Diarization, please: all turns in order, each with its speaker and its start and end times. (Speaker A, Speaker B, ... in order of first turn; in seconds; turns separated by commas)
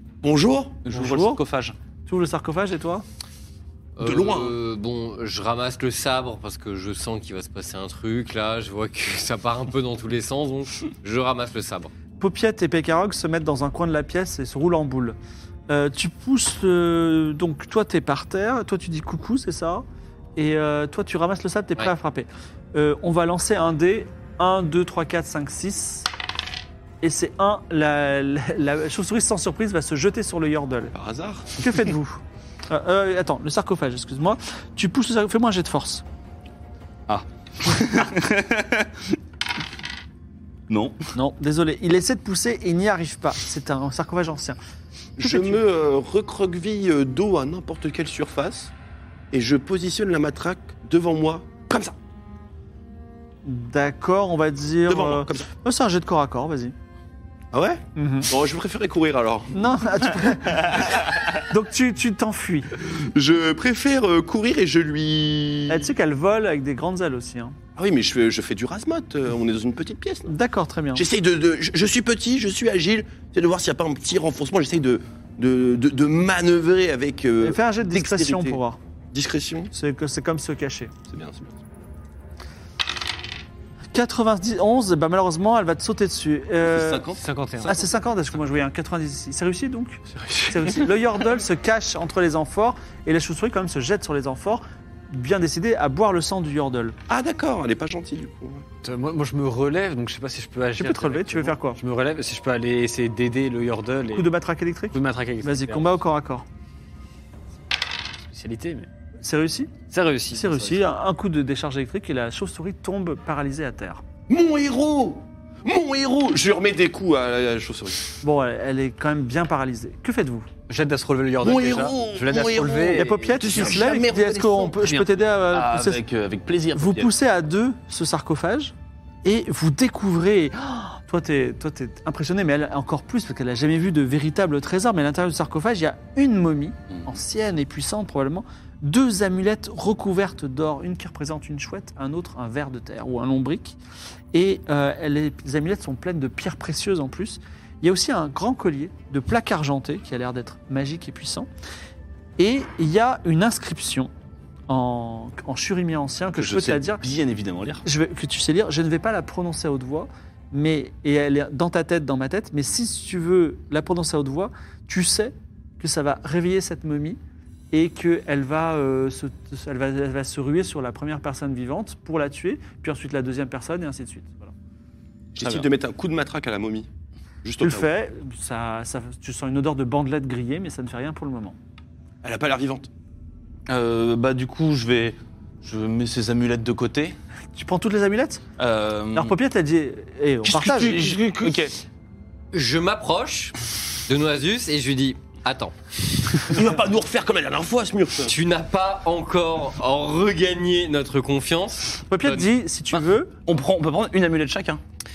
Speaker A: 0.2-0.9, Speaker B: 0.8-1.8, Speaker C: 0.9-1.4, Speaker C: 2.0-3.0, Speaker D: 4.0-11.9, Speaker A: 4.0-4.5, Speaker C: 12.2-15.2, Speaker C: 15.7-19.8, Speaker C: 20.4-26.1, Speaker C: 27.0-30.9, Speaker A: 30.9-31.6, Speaker C: 31.6-36.0, Speaker B: 37.1-39.0, Speaker B: 40.7-41.0, Speaker C: 41.1-44.6, Speaker A: 45.2-48.7, Speaker C: 45.2-45.6, Speaker A: 49.3-51.9, Speaker C: 53.4-56.7, Speaker A: 54.9-55.5, Speaker A: 57.5-59.6, Speaker C: 58.0-58.3, Speaker C: 59.5-60.9, Speaker C: 61.5-62.7, Speaker A: 62.8-65.9, Speaker C: 65.7-67.5, Speaker A: 67.8-70.3, Speaker C: 70.3-71.0, Speaker A: 70.9-78.6, Speaker C: 77.4-78.8, Speaker A: 79.1-79.7, Speaker C: 79.7-80.9, Speaker A: 81.1-81.6, Speaker C: 83.9-87.0, Speaker A: 86.6-87.8, Speaker E: 87.2-87.8, Speaker C: 87.7-97.0, Speaker A: 97.1-98.6, Speaker E: 98.8-104.3, Speaker C: 100.8-101.8, Speaker C: 104.1-106.5, Speaker E: 104.9-105.9, Speaker E: 108.2-108.9, Speaker C: 109.2-109.7, Speaker E: 109.9-110.8, Speaker C: 110.3-114.0, Speaker A: 114.3-118.1, Speaker C: 118.2-120.5, Speaker E: 120.7-123.8, Speaker A: 121.4-124.7, Speaker C: 122.9-126.0, Speaker E: 124.7-125.1, Speaker B: 125.5-127.1, Speaker C: 126.7-143.8, Speaker C: 144.3-151.5, Speaker C: 152.4-154.1, Speaker C: 154.7-157.0, Speaker B: 156.4-157.8, Speaker C: 157.8-167.2, Speaker C: 167.7-174.5, Speaker A: 175.3-176.9, Speaker B: 175.4-175.7, Speaker A: 177.4-177.9, Speaker C: 177.6-181.6, Speaker A: 182.2-182.9, Speaker B: 183.7-187.2, Speaker C: 187.5-188.4, Speaker B: 188.6-189.3, Speaker C: 189.1-191.1, Speaker B: 190.5-191.7, Speaker A: 190.6-191.5, Speaker D: 192.5-196.5, Speaker A: 196.4-198.3, Speaker D: 198.2-202.5, Speaker C: 202.1-203.3, Speaker B: 202.9-204.8